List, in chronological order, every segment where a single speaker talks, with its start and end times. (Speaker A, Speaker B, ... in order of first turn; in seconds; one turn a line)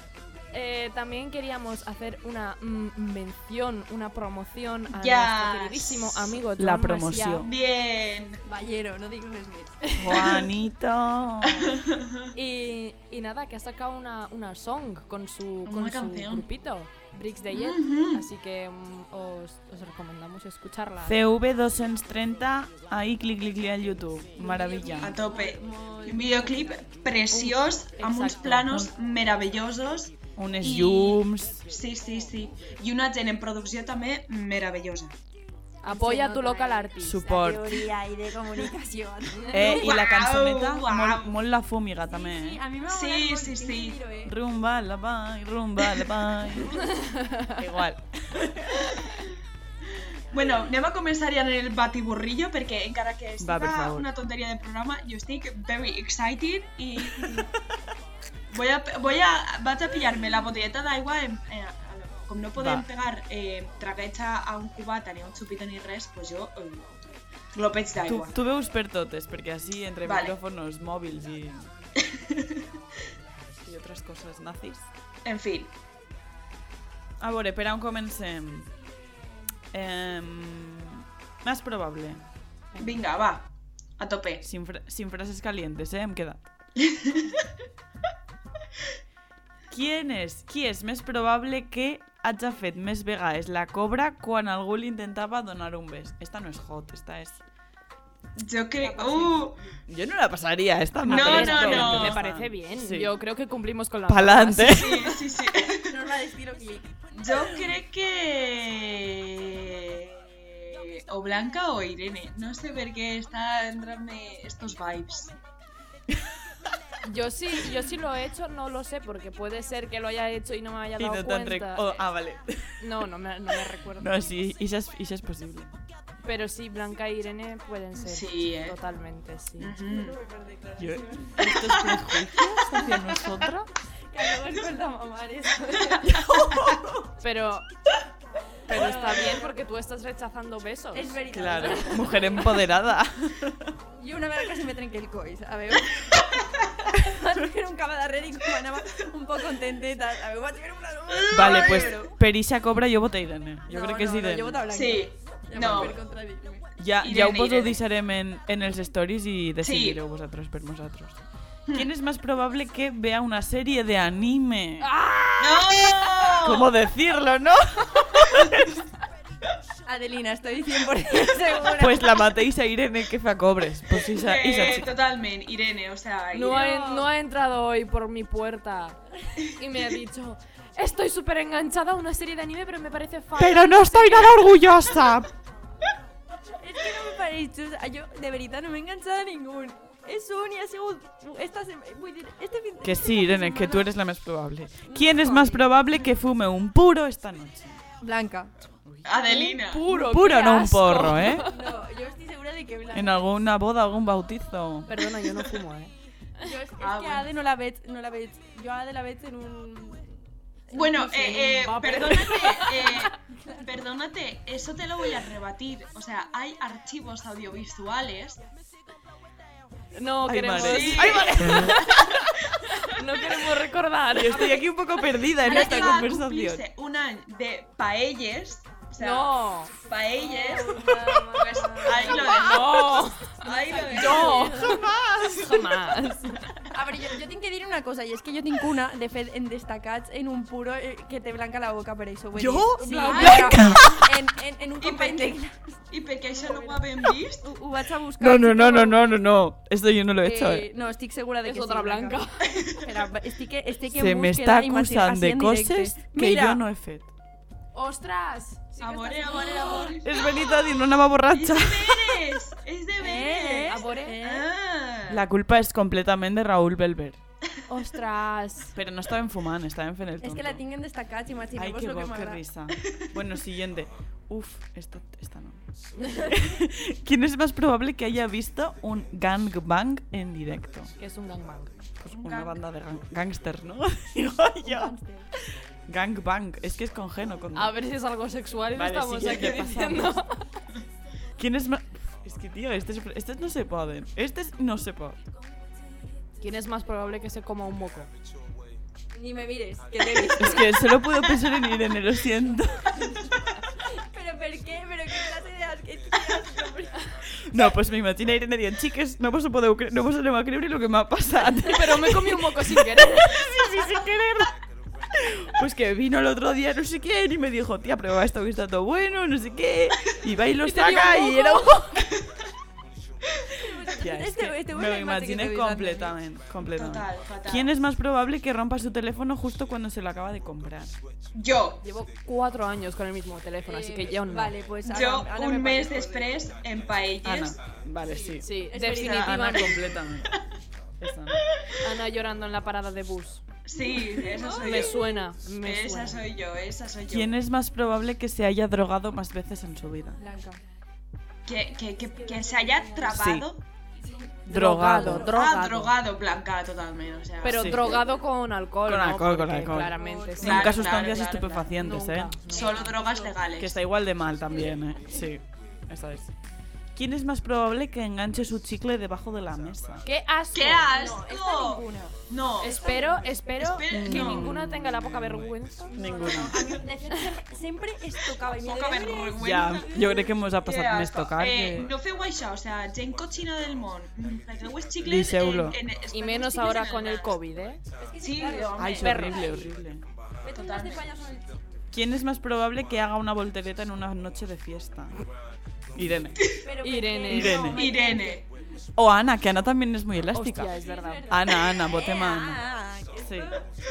Speaker A: 0.5-7.5
Speaker B: 4.9-6.4
Speaker C: 6.6-7.5
Speaker B: 7.4-8.4
Speaker D: 8.4-10.4
Speaker C: 10.0-11.8
Speaker B: 11.4-12.3
Speaker A: 12.3-21.2
Speaker B: 15.7-16.4
Speaker B: 17.5-18.2
Speaker C: 21.0-25.2
Speaker D: 24.4-26.9
Speaker B: 25.0-35.1
Speaker A: 27.3-28.8
Speaker C: 28.6-28.9
Speaker C: 30.4-31.6
Speaker A: 35.8-37.2
Speaker D: 35.8-40.0
Speaker C: 37.0-37.8
Speaker B: 39.5-41.3
Speaker C: 39.5-42.6
Speaker D: 42.1-44.4
Speaker B: 42.9-44.0
Speaker C: 44.2-46.8
Speaker A: 46.8-47.6
Speaker C: 47.6-48.9
Speaker B: 50.3-57.5
Speaker C: 53.4-54.1
Speaker B: 58.5-68.3
Speaker C: 62.6-62.9
Speaker C: 68.1-71.7
Speaker B: 70.0-70.3
Speaker B: 72.0-72.7
Speaker C: 73.6-74.9
Speaker B: 75.2-75.7
Speaker C: 77.2-78.7
Speaker C: 79.7-82.2
Speaker B: 82.8-84.4
Speaker C: 84.4-86.5
Speaker B: 86.8-87.4
Speaker C: 89.7-97.4
Speaker B: 98.4-99.6
Speaker D: 98.8-99.8
Speaker C: 99.9-103.1
Speaker B: 101.0-102.2
Speaker A: 101.0-105.1
Speaker C: 104.1-105.2
Speaker B: 104.6-106.0
Speaker D: 105.8-106.9
Speaker B: 107.1-115.3
Speaker A: 117.0-122.0
Speaker C: 121.0-122.8
Speaker A: 122.8-124.2
Speaker C: 124.0-125.7
Speaker A: 126.2-129.9
Speaker B: 128.0-128.8
Speaker B: 129.6-130.2
Speaker D: 129.8-131.8
Speaker C: 130.8-133.7
Speaker D: 132.7-133.2
Speaker D: 134.1-136.3
Speaker C: 136.2-136.9
Speaker A: 137.2-137.7
Speaker D: 138.7-139.6
Speaker A: 138.7-142.2
Speaker D: 140.9-142.5
Speaker C: 141.3-143.7
Speaker D: 144.0-146.4
Speaker D: 146.9-152.2
Speaker C: 151.3-154.6
Speaker B: 151.4-151.9
Speaker D: 153.7-156.7
Speaker B: 154.7-156.0
Speaker C: 156.8-161.2
Speaker B: 157.0-157.8
Speaker B: 159.6-160.0
Speaker C: 161.7-164.9
Speaker A: 164.8-166.1
Speaker B: 165.4-166.7
Speaker C: 166.4-168.7
Speaker D: 169.9-172.2
Speaker C: 171.7-174.9
Speaker B: 174.0-176.7
Speaker A: 176.3-184.7
Speaker D: 176.5-177.1
Speaker C: 183.4-185.3
Speaker D: 186.6-193.9
Speaker C: 192.8-197.8
Speaker D: 194.9-195.5
Speaker A: 195.2-195.6
Speaker D: 198.0-198.6
Speaker C: 198.8-199.2
Speaker B: 199.0-199.9
Speaker A: 199.2-201.6
Speaker C: 199.8-201.5
Speaker D: 201.4-203.3
Speaker C: 202.9-204.9
Speaker A: 204.9-205.9
Speaker D: 206.4-210.2
Speaker B: 206.8-207.3
Speaker D: 210.7-213.6
Speaker B: 210.7-218.4
Speaker A: 220.0-222.0
Speaker C: 220.2-222.4
Speaker B: 220.5-221.7
Speaker D: 221.0-221.3
Speaker A: 222.7-224.7
Speaker C: 224.2-226.6
Speaker B: 225.4-229.3
Speaker A: 229.0-229.7
Speaker B: 229.8-234.4
Speaker D: 230.1-234.8
Speaker A: 232.2-233.3
Speaker A: 233.9-234.9
Speaker C: 234.5-235.9
Speaker A: 235.4-236.5
Speaker D: 236.7-249.1
Speaker C: 242.3-244.1
Speaker A: 242.8-243.4
Speaker B: 243.0-243.8
Speaker B: 244.8-245.4
Speaker B: 245.9-247.5
Speaker C: 248.2-250.7
Speaker D: 250.2-252.2
Speaker A: 251.4-252.5
Speaker D: 252.8-256.6
Speaker C: 253.9-257.1
Speaker A: 257.7-260.0
Speaker B: 258.8-260.5
Speaker D: 259.3-259.9
Speaker C: 259.8-262.4
Speaker B: 261.3-265.2
Speaker D: 263.0-264.5
Speaker A: 263.7-264.2
Speaker C: 265.1-267.2
Speaker A: 267.7-268.8
Speaker C: 268.8-270.6
Speaker D: 270.2-272.4
Speaker C: 271.6-275.6
Speaker C: 276.2-280.9
Speaker A: 281.0-281.7
Speaker C: 282.0-285.0
Speaker B: 282.1-282.6
Speaker D: 284.6-285.3
Speaker C: 285.9-287.8
Speaker A: 287.5-290.5
Speaker C: 288.7-290.2
Speaker C: 291.4-295.2
Speaker A: 296.4-298.1
Speaker D: 299.1-301.5
Speaker C: 300.4-302.9
Speaker D: 303.9-307.1
Speaker C: 307.4-314.5
Speaker A: 311.6-313.4
Speaker C: 315.1-321.8
Speaker A: 320.6-321.9
Speaker D: 320.8-321.7
Speaker D: 323.6-326.1
Speaker C: 324.0-330.9
Speaker B: 326.7-327.7
Speaker B: 331.3-331.8
Speaker A: 331.8-334.6
Speaker D: 333.7-336.4
Speaker B: 334.9-337.6
Speaker C: 337.2-340.4
Speaker D: 338.0-339.8
Speaker A: 338.4-339.9
Speaker C: 341.0-341.4
Speaker A: 341.8-343.4
Speaker B: 343.6-345.1
Speaker D: 343.9-345.1
Speaker A: 344.6-346.2
Speaker B: 345.6-347.3
Speaker C: 347.1-350.2
Speaker D: 350.2-350.6
Speaker B: 351.5-353.6
Speaker D: 352.1-353.3
Speaker C: 353.1-353.5
Speaker C: 354.5-355.4
Speaker A: 354.5-355.9
Speaker B: 354.9-358.1
Speaker A: 357.4-363.0
Speaker C: 357.5-357.9
Speaker C: 358.9-362.4
Speaker D: 359.9-360.9
Speaker B: 360.4-361.7
Speaker B: 362.5-363.8
Speaker D: 362.5-363.4
Speaker C: 363.6-366.3
Speaker C: 366.9-370.1
Speaker A: 370.0-371.0
Speaker B: 370.5-374.5
Speaker D: 370.9-372.2
Speaker A: 372.6-376.4
Speaker D: 372.8-373.4
Speaker C: 373.9-376.7
Speaker D: 375.9-380.3
Speaker B: 378.6-387.4
Speaker C: 379.4-381.9
Speaker C: 385.0-385.8
Speaker A: 386.1-387.8
Speaker D: 388.0-389.7
Speaker B: 388.2-389.4
Speaker C: 388.8-390.1
Speaker A: 389.0-389.4
Speaker D: 390.4-391.5
Speaker B: 390.5-391.0
Speaker C: 391.9-395.2
Speaker C: 395.9-396.5
Speaker D: 396.5-398.5
Speaker A: 396.8-397.8
Speaker C: 397.3-397.9
Speaker B: 397.7-398.4
Speaker C: 399.0-400.7
Speaker A: 400.3-401.3
Speaker D: 400.8-403.7
Speaker C: 401.3-402.7
Speaker C: 403.2-403.5